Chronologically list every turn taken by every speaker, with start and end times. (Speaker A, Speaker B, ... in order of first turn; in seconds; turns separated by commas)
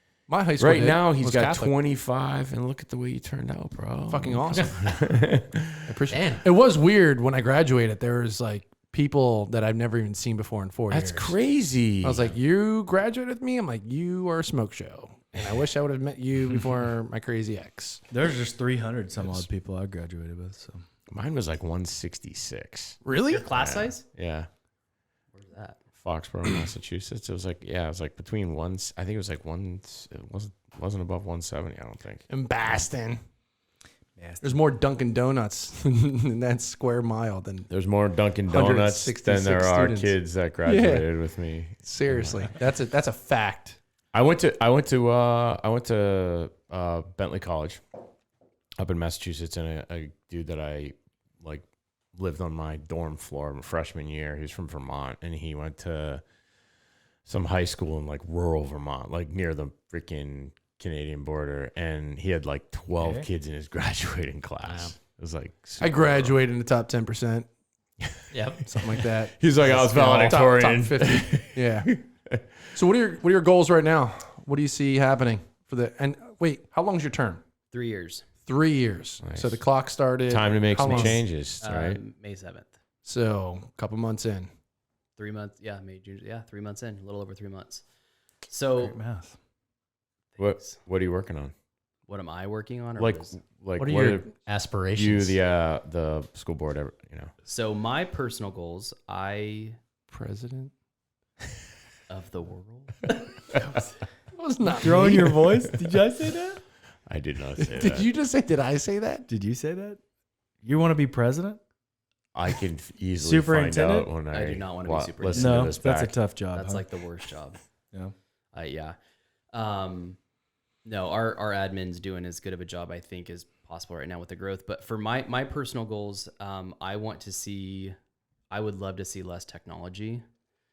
Speaker A: 0.3-1.7, Speaker B: 0.6-5.9, Speaker A: 4.1-5.1, Speaker A: 5.8-11.4, Speaker C: 6.1-6.4, Speaker B: 10.9-12.3, Speaker A: 12.0-18.0, Speaker D: 18.1-20.9, Speaker B: 21.1-23.0, Speaker A: 23.0-23.4, Speaker E: 23.3-24.0, Speaker B: 23.5-24.5, Speaker E: 25.3-25.8, Speaker B: 26.0-32.2, Speaker A: 32.3-33.2, Speaker D: 34.2-34.5, Speaker A: 34.4-37.7, Speaker B: 37.7-42.5, Speaker A: 38.4-41.1, Speaker A: 41.8-43.8, Speaker B: 44.1-47.8, Speaker B: 48.8-51.6, Speaker B: 52.1-56.2, Speaker B: 57.2-66.4, Speaker D: 63.0-63.3, Speaker C: 64.6-65.0, Speaker A: 65.8-67.5, Speaker C: 68.3-68.6, Speaker A: 68.7-71.9, Speaker B: 69.0-72.4, Speaker A: 72.7-77.4, Speaker E: 77.7-78.2, Speaker A: 78.5-81.2, Speaker B: 79.2-79.6, Speaker B: 80.3-82.0, Speaker E: 81.6-82.7, Speaker A: 83.0-84.5, Speaker E: 85.2-87.8, Speaker E: 88.5-89.0, Speaker D: 88.8-89.4, Speaker E: 90.3-90.8, Speaker B: 90.4-91.5, Speaker E: 92.1-93.4, Speaker B: 93.0-94.3, Speaker C: 93.8-95.4, Speaker B: 95.0-97.3, Speaker E: 97.4-99.8, Speaker A: 100.1-100.7, Speaker E: 102.1-103.8, Speaker A: 104.3-105.5, Speaker D: 104.8-106.6, Speaker B: 107.1-108.1, Speaker A: 107.6-109.3, Speaker D: 109.3-110.0, Speaker D: 110.6-111.6, Speaker B: 112.3-116.2, Speaker D: 113.2-114.1, Speaker E: 114.3-115.8, Speaker D: 115.3-116.8, Speaker E: 116.5-117.6, Speaker E: 118.5-119.0, Speaker E: 119.5-120.2, Speaker E: 120.8-128.0, Speaker E: 128.5-130.2